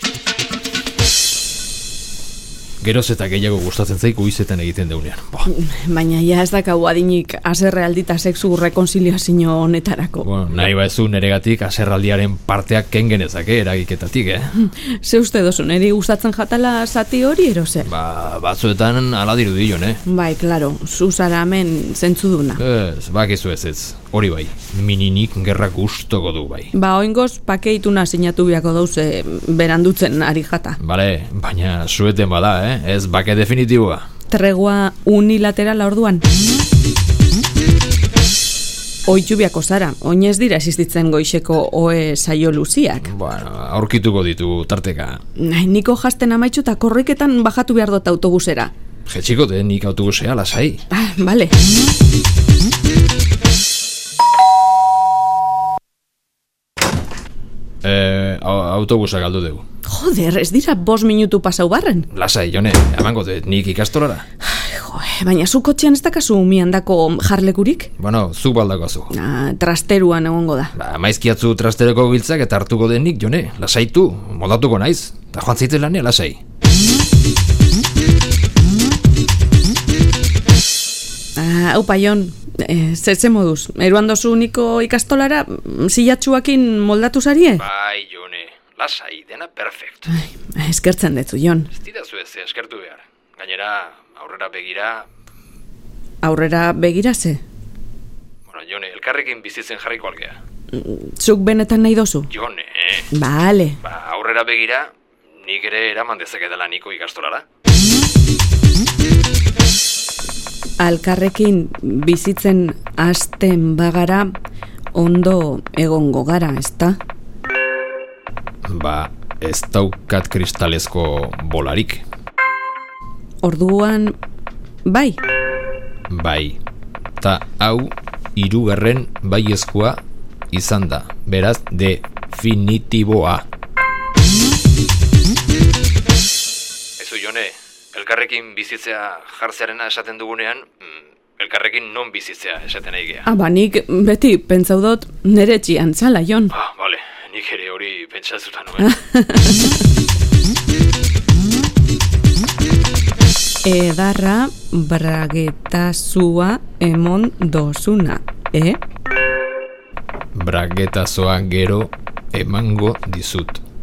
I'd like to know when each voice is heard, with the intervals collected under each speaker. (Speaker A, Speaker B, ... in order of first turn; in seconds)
Speaker A: 2.8-5.5, 10.2-14.5, 17.9-20.0, 22.6-26.7, 30.8-34.1, 43.0-45.2, 49.1-50.8, 57.8-59.6, 62.1-64.2, 68.0-69.1, 70.8-76.4, 87.6-90.1, 91.7-95.1, 98.5-100.4, 102.3-103.1, 103.8-104.9, 105.4-107.4, 118.7-122.0, 126.1-126.6, 127.2-130.0, 130.5-133.4, 137.0-143.3, 146.5-149.0, 160.3-163.6
Speaker B: 5.5-10.3, 14.6-17.9, 20.1-22.6, 26.7-30.8, 34.3-36.3, 39.1-43.1, 45.4-48.7, 50.9-51.5, 59.9-62.1, 64.4-67.9, 69.1-70.7, 81.4-87.6, 90.1-91.7, 96.2-97.4, 100.7-102.3, 103.1-103.8, 110.8-114.3, 114.9-117.0, 123.4-124.2, 124.8-125.2, 143.3-146.5, 148.8-149.8, 153.6-158.8